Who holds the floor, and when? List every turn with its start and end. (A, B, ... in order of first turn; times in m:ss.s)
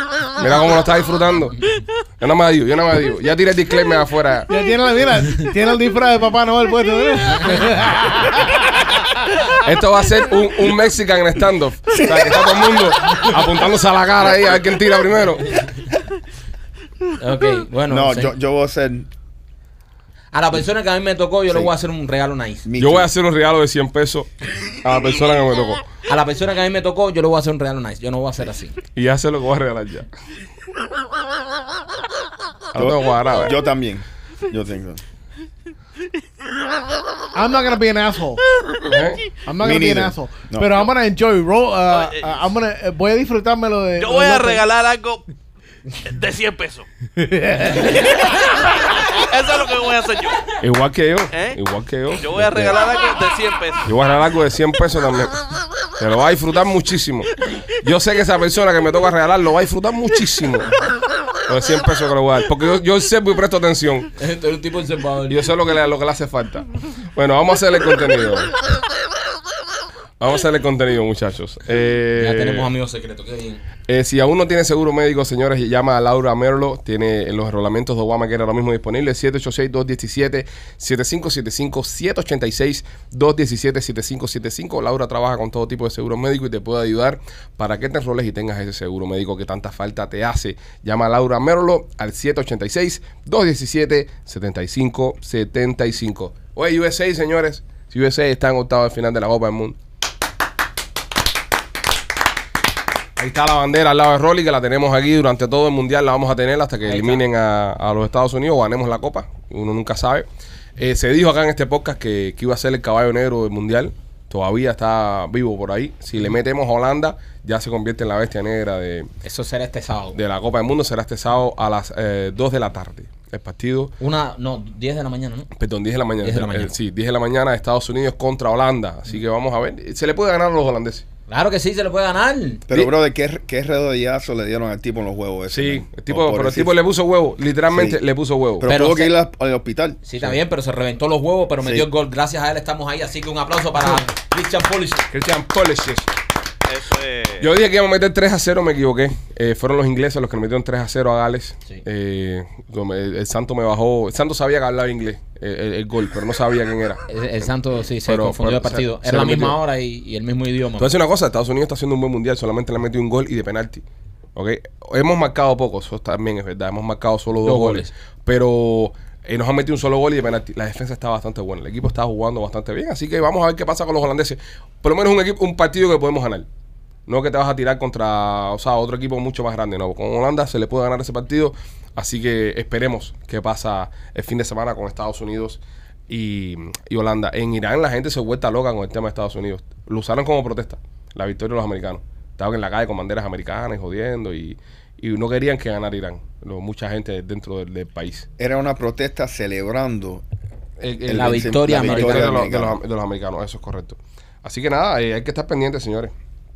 0:00.4-0:04.5 A
0:04.5-0:09.2 B
0:09.6-0:15.6 A
0:11.9-0:12.8 C
0:17.2-0:18.3 D
0:17.9-0:19.1 C
0:20.3-0:22.7 D
0:22.6-0:23.1 C
0:22.8-0:25.8 A
0:26.1-0:28.8 D
0:29.0-0:30.1 A
0:32.7-0:33.6 A
0:32.7-0:35.0 C
0:37.3-0:38.4 B
0:38.8-0:39.3 A
0:39.4-0:44.7 B
0:39.6-0:40.8 C
0:41.9-0:42.4 E
0:44.0-0:45.2 E
0:46.0-0:46.9 E
0:47.2-0:48.2 B
0:47.8-0:50.5 E
0:50.6-0:52.8 A
0:51.3-0:51.6 E
0:52.2-0:53.9 E
0:53.8-0:55.5 A
0:56.0-1:00.7 A
1:01.5-1:04.1 A
1:04.2-1:05.5 D
1:05.3-1:08.5 A
1:10.2-1:12.7 A
1:12.1-1:13.6 D
1:13.9-1:39.8 A
1:43.2-1:59.1 A
1:46.8-1:47.2 D
1:59.2-2:00.2 D
2:00.1-2:03.9 A
2:04.0-2:05.5 D
2:05.5-2:11.0 A
2:06.2-2:06.7 D
2:11.3-2:12.7 D
2:12.7-2:16.8 C
2:15.5-2:18.7 A
2:17.7-2:18.0 C
2:18.6-2:20.4 C
2:18.6-2:19.1 D
2:20.0-2:25.1 D
2:21.6-2:21.9 C
2:25.1-2:26.1 A
2:26.7-2:27.5 E
2:27.4-2:37.0 A
2:37.1-2:41.0 D
2:38.1-2:39.6 A
2:40.8-2:43.8 A
2:44.4-2:56.5 A
2:47.4-2:47.9 D
2:57.1-3:18.3 A
3:18.4-3:20.2 C
3:20.8-3:26.1 A
3:21.0-3:22.8 C
3:21.1-3:22.3 D